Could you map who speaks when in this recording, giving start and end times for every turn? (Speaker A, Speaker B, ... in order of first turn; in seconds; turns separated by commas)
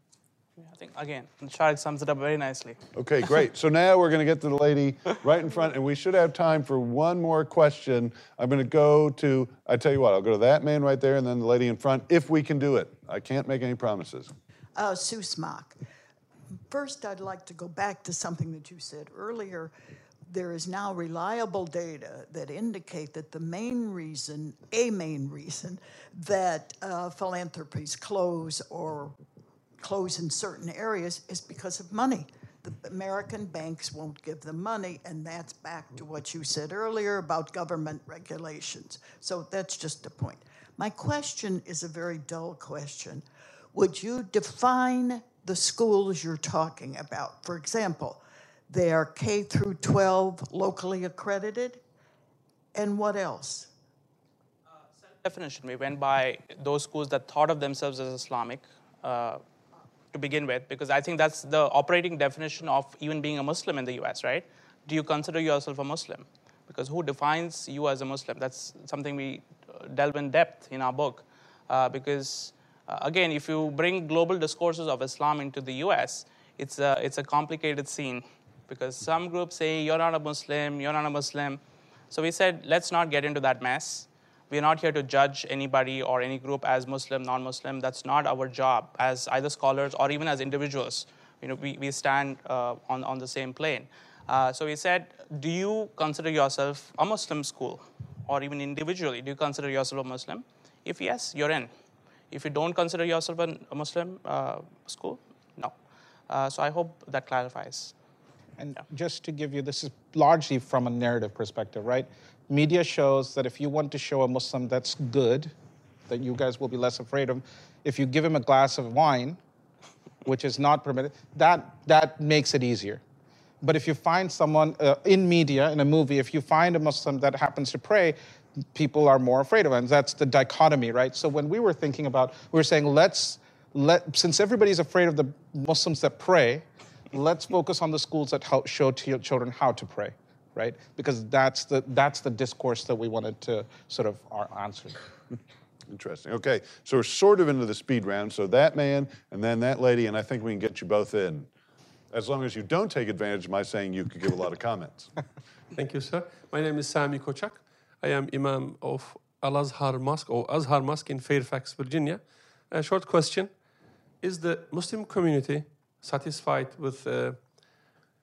Speaker A: 0.6-2.8, Speaker B: 3.0-14.3, Speaker C: 14.8-15.8, Speaker C: 16.7-19.7, Speaker C: 20.3-29.2, Speaker C: 29.8-51.8, Speaker C: 52.7-53.7, Speaker A: 55.1-59.4, Speaker A: 60.1-81.6, Speaker A: 82.1-101.7, Speaker A: 102.3-105.7, Speaker A: 106.3-107.9, Speaker D: 108.6-115.5, Speaker D: 116.1-119.4, Speaker D: 120.2-123.0, Speaker D: 123.6-128.2, Speaker D: 128.7-145.0, Speaker B: 145.9-151.5, Speaker B: 152.1-155.1, Speaker E: 155.7-163.5, Speaker E: 164.2-167.5